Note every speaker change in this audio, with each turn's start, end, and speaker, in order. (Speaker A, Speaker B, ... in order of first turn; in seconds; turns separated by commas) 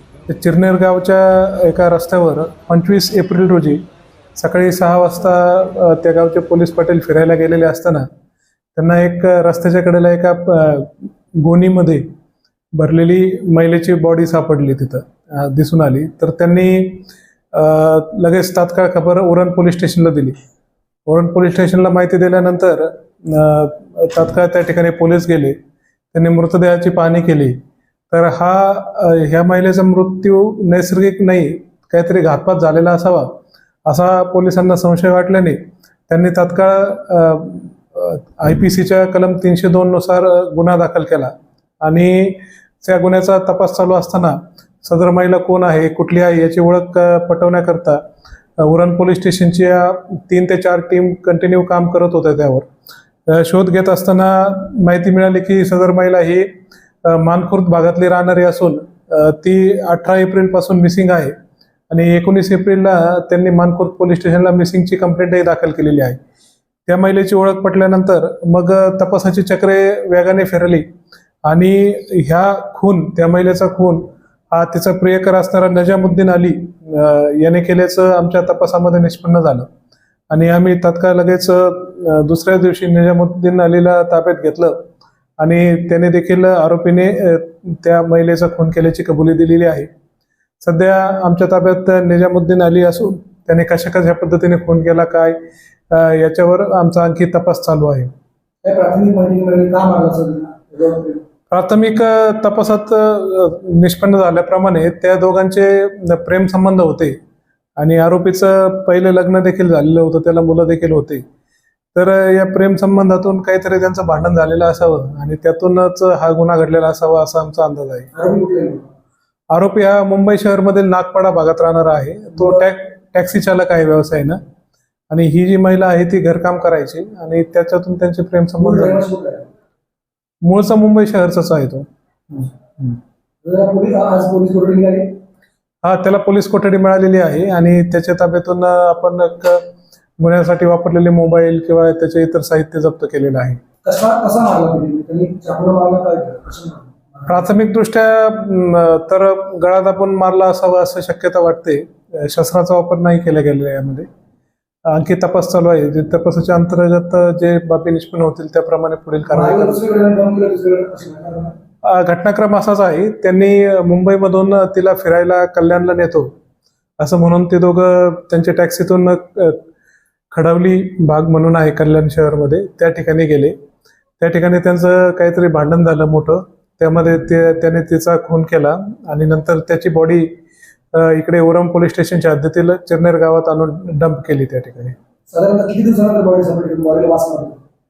Speaker A: 0.3-3.8, Speaker A: 4.3-8.1, Speaker A: 8.7-12.1, Speaker A: 12.8-20.4, Speaker A: 21.1-25.6, Speaker A: 26.1-27.6, Speaker A: 28.1-33.3, Speaker A: 33.9-35.6, Speaker A: 36.1-48.0, Speaker A: 48.6-52.7, Speaker A: 53.3-56.5, Speaker A: 57.1-61.3, Speaker A: 61.9-66.2, Speaker A: 66.9-70.8, Speaker A: 71.5-79.7, Speaker A: 80.3-84.8, Speaker A: 85.4-89.9, Speaker A: 90.6-95.4, Speaker A: 95.9-98.1, Speaker B: 98.6-101.2, Speaker A: 101.5-107.2, Speaker A: 107.8-111.2, Speaker A: 111.9-118.1, Speaker B: 118.1-118.9, Speaker A: 119.5-124.4, Speaker A: 125.1-129.1, Speaker B: 128.6-129.5, Speaker A: 130.4-133.0, Speaker B: 133.4-135.1, Speaker A: 135.8-139.6, Speaker A: 140.2-143.6, Speaker B: 143.8-147.4, Speaker A: 147.3-154.1, Speaker A: 154.9-159.8, Speaker B: 159.3-161.5, Speaker A: 161.8-166.3, Speaker A: 167.0-169.6, Speaker A: 170.3-173.5, Speaker A: 174.2-180.3, Speaker A: 180.9-184.9, Speaker B: 185.3-187.6